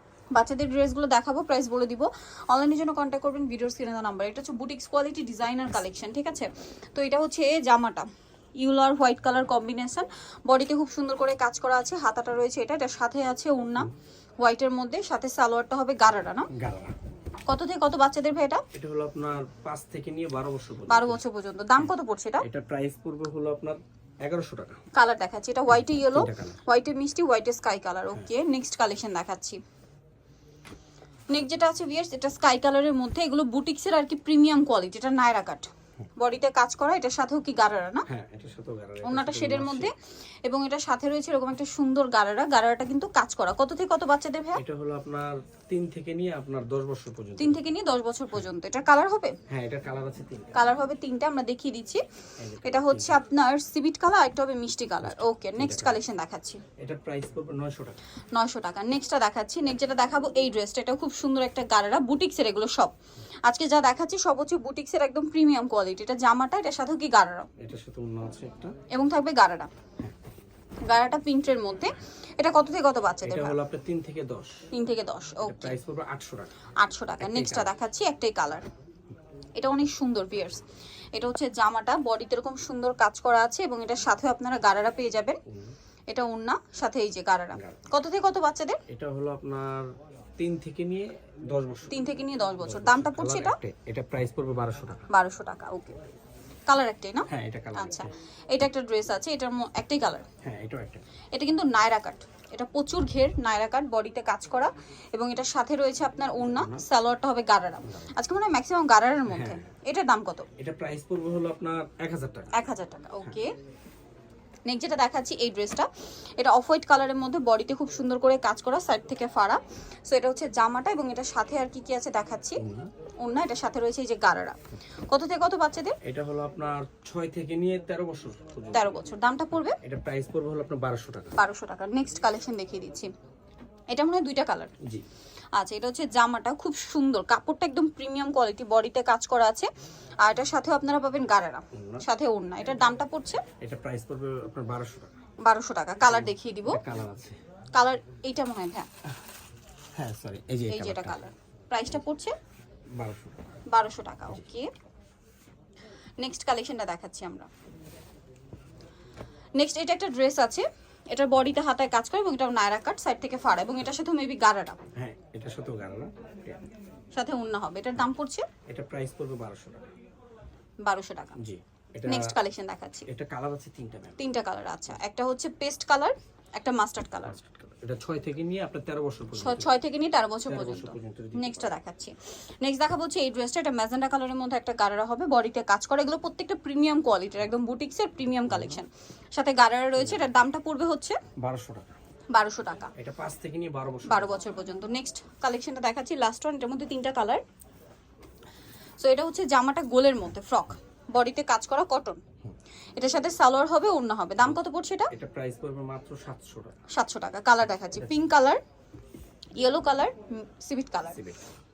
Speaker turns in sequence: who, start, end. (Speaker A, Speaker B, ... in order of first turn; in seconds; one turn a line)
Speaker A: 0.3-8.1
Speaker A: 8.6-16.5
Speaker B: 16.5-17.0
Speaker A: 17.5-18.6
Speaker B: 18.7-21.2
Speaker A: 20.9-22.4
Speaker B: 22.4-24.8
Speaker A: 25.0-29.6
Speaker B: 25.7-26.6
Speaker A: 31.3-38.1
Speaker B: 38.1-39.9
Speaker A: 39.0-39.9
Speaker A: 40.4-44.6
Speaker B: 44.6-47.6
Speaker A: 47.4-49.4
Speaker B: 49.5-50.5
Speaker A: 50.5-52.0
Speaker B: 52.4-53.2
Speaker A: 52.6-56.6
Speaker B: 55.0-56.0
Speaker B: 56.8-58.0
Speaker A: 58.3-62.9
Speaker A: 63.5-67.5
Speaker B: 67.6-68.8
Speaker A: 68.9-69.7
Speaker A: 70.9-73.6
Speaker B: 73.2-74.6
Speaker A: 74.7-75.8
Speaker B: 75.4-76.5
Speaker A: 76.8-78.7
Speaker B: 77.2-77.7
Speaker A: 79.6-80.6
Speaker A: 81.1-85.4
Speaker B: 85.5-85.7
Speaker A: 86.1-88.8
Speaker B: 87.5-87.8
Speaker B: 88.9-92.0
Speaker A: 91.9-93.6
Speaker B: 92.6-95.0
Speaker A: 95.1-96.1
Speaker A: 96.7-100.3
Speaker B: 97.3-98.1
Speaker B: 100.4-101.0
Speaker A: 101.3-110.5
Speaker B: 106.5-106.8
Speaker B: 109.3-109.7
Speaker B: 110.6-112.5
Speaker A: 112.5-113.5
Speaker A: 114.7-122.6
Speaker B: 122.6-122.9
Speaker A: 123.2-124.6
Speaker A: 125.1-126.0
Speaker B: 126.0-128.9
Speaker A: 128.7-129.8
Speaker B: 129.8-131.4
Speaker A: 131.4-133.1
Speaker A: 133.9-134.7
Speaker A: 135.6-139.7
Speaker A: 140.2-143.4
Speaker B: 141.7-142.1
Speaker B: 143.6-145.1
Speaker A: 145.5-146.8
Speaker B: 146.1-147.4
Speaker A: 147.7-148.9
Speaker B: 150.0-151.2
Speaker A: 150.7-152.4
Speaker B: 153.0-153.6
Speaker A: 153.7-154.7
Speaker A: 156.2-157.5
Speaker A: 159.6-164.8
Speaker B: 164.9-166.7
Speaker A: 167.1-168.5
Speaker B: 168.7-169.9
Speaker A: 170.8-171.4
Speaker B: 171.4-172.4
Speaker A: 172.1-173.1
Speaker B: 173.1-174.2
Speaker A: 174.2-177.4
Speaker B: 177.4-179.8
Speaker A: 179.3-191.2
Speaker B: 180.5-181.7
Speaker B: 188.5-188.8
Speaker B: 190.0-190.3
Speaker B: 191.4-191.9
Speaker A: 192.3-192.9
Speaker B: 193.0-194.4
Speaker A: 194.1-197.4
Speaker A: 199.0-202.2
Speaker A: 203.0-205.1
Speaker B: 205.1-206.8
Speaker A: 206.9-208.6
Speaker A: 209.6-211.2
Speaker B: 211.1-211.4